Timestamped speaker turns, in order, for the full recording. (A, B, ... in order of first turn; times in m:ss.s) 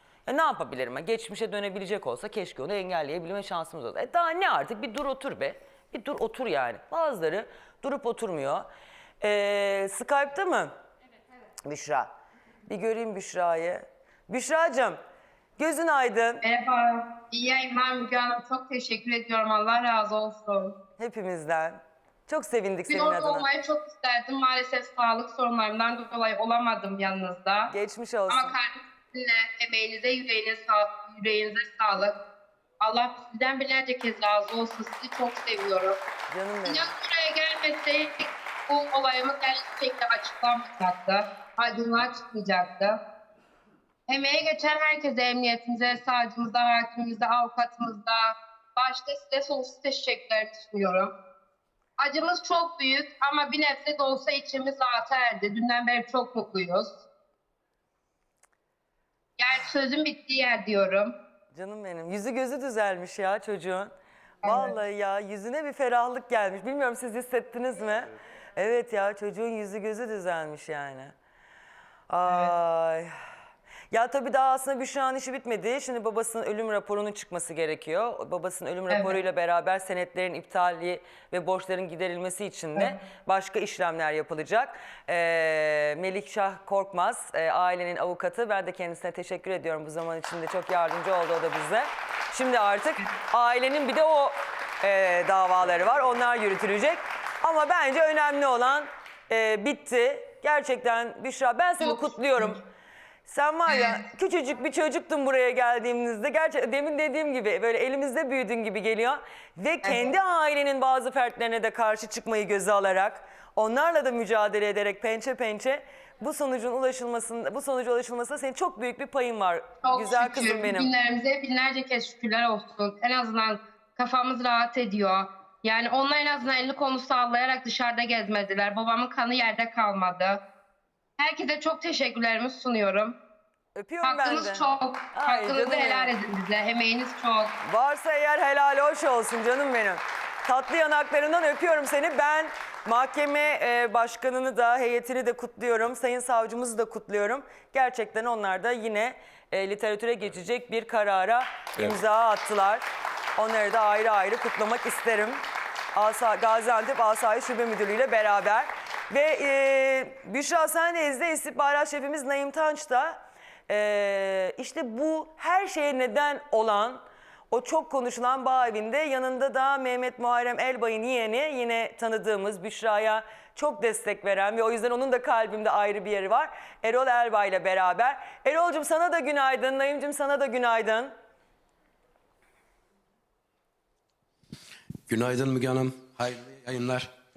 0:00.2-0:08.7 A
0:09.2-0:10.7 A
0:11.6-0:12.1 A
0:12.7-0:15.0 A
0:15.6-0:16.4 A
0:16.4-0:20.7 B
0:21.0-0:23.5 A
0:22.9-0:27.7 B
0:27.7-0:28.5 A
0:28.3-0:32.2 B
0:32.8-0:36.0 B
0:36.3-0:36.9 A
0:36.6-0:43.0 B
0:44.1-0:51.1 B
0:52.0-0:57.0 B
0:59.4-1:01.1 B
1:01.5-1:03.9 A
1:04.4-1:04.7 B
1:04.4-1:11.1 A
1:12.1-1:13.1 A
1:13.9-1:42.6 A
1:18.9-1:19.2 B
1:41.8-1:42.6 B
1:43.3-2:00.9 A
1:43.7-1:44.0 B
1:49.8-1:50.1 B
1:59.8-2:10.4 B
2:11.2-2:13.2 B
2:13.8-2:16.1 A
2:14.0-2:17.5 B
2:17.6-2:32.8 A
2:33.4-2:35.4 A
2:35.9-3:01.1 A
3:05.1-3:07.1 C